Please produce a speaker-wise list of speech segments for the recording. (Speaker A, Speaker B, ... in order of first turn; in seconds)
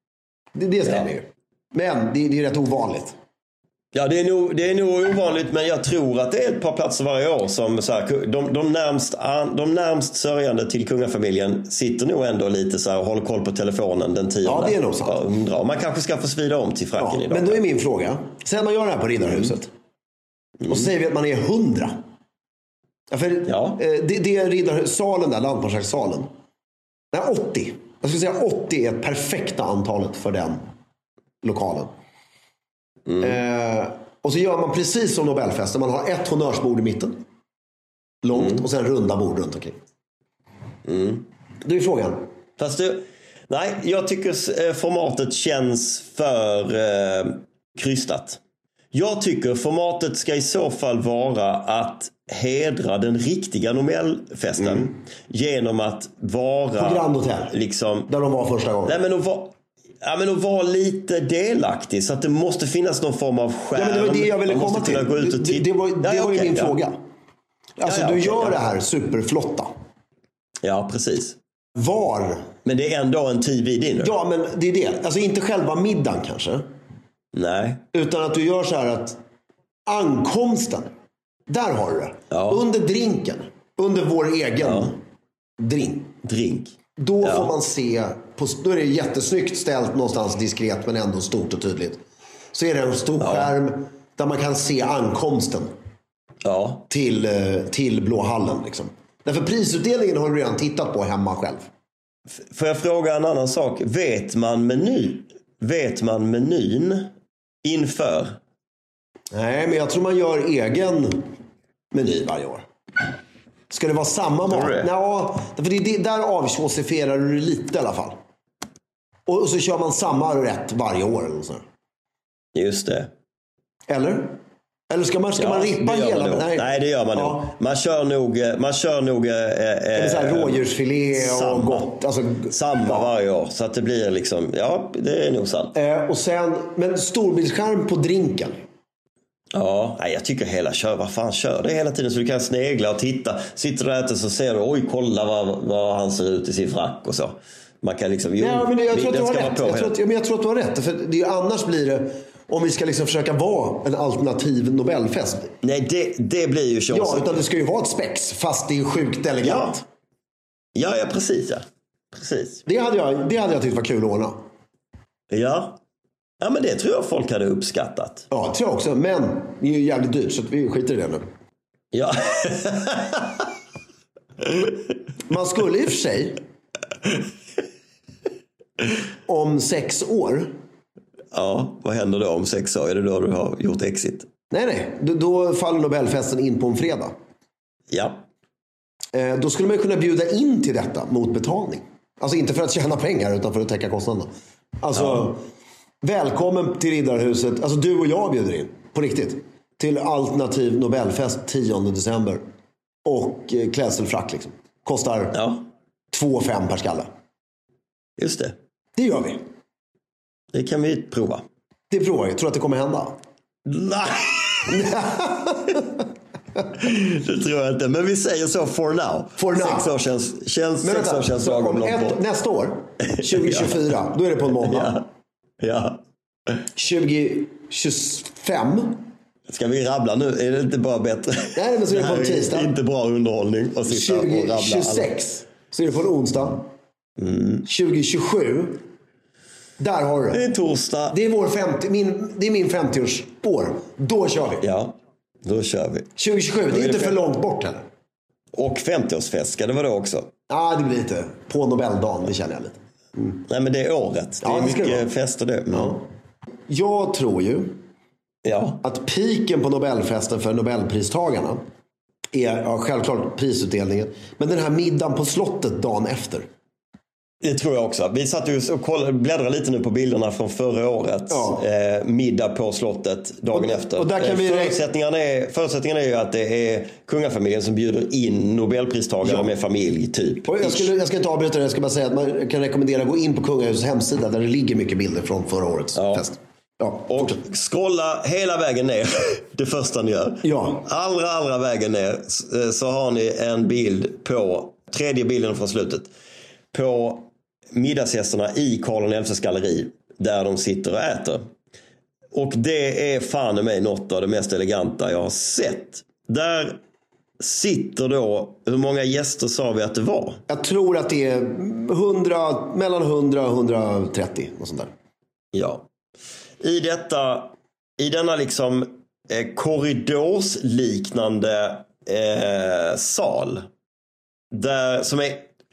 Speaker A: 0.5-3.1, 14.4-15.2, 17.0-19.7, 20.7-22.0, 23.1-26.3, 27.1-30.6, 31.4-31.9, 33.2-37.2, 38.2-39.8, 41.6-42.2, 54.6-54.9, 56.8-57.5, 58.1-59.0, 63.7-67.0, 67.8-69.7, 71.8-72.5, 74.0-76.7, 77.9-79.2, 79.9-80.9, 81.5-85.0, 85.6-86.1, 87.0-92.0, 92.5-95.7, 96.9-101.7, 109.3-111.3, 111.9-112.6, 113.7-118.2, 119.3-121.6, 123.9-124.4, 124.9-127.5, 129.9-133.1, 135.7-138.6, 148.4-155.5, 156.9-159.8, 162.7-164.3, 168.3-171.2, 175.3-176.4, 179.3-180.5, 184.5-187.1, 189.1-194.3, 194.8-195.4, 196.0-202.4, 203.0-205.4, 206.1-207.1, 209.0-209.4, 211.9-213.1, 214.7-216.0, 219.4-219.9, 220.8-225.0, 226.8-229.0, 231.5-232.7, 233.8-236.6, 237.6-238.8, 239.8-240.4, 241.1-244.6, 246.2-247.8, 250.5-253.4, 254.4-255.1, 255.7-256.0, 256.7-257.8, 258.8-261.6, 262.3-266.5, 271.3-271.6, 273.5-274.8, 280.4-287.4, 290.4-290.8, 310.5-314.9
Speaker B: 3.9-17.6, 20.6-20.9, 23.5-23.8, 33.1-33.4, 38.3-38.6, 40.8-41.3, 42.6-48.4, 48.9-58.1, 58.8-66.8, 67.8-68.6, 70.6-71.4, 72.6-74.1, 77.3-77.8, 82.3-82.6, 84.6-84.9, 86.2-87.5, 93.2-93.5, 96.4-96.8, 102.3-107.1, 107.6-108.4, 114.5-114.9, 122.5-123.1, 125.4-131.8, 132.5-135.7, 139.5-149.9, 155.6-157.4, 159.4-159.8, 160.7-162.6, 165.3-165.8, 166.4-168.3, 171.9-173.5, 174.4-174.8, 181.3-184.3, 187.9-188.2, 194.9-195.3, 205.3-205.6, 208.2-208.6, 210.5-211.4, 213.7-214.8, 216.7-222.2, 223.1-223.8, 224.6-225.0, 225.6-226.6, 229.5-235.1, 237.2-237.6, 240.3-241.2, 244.6-246.1, 246.7-247.2, 248.5-250.3, 253.5-256.0, 258.4-258.8, 267.4-280.9, 285.9-286.2, 287.1-296.1, 296.7-301.4, 302.3-306.8, 307.4-310.4, 315.5-315.8, 316.6-323.6, 324.5-325.5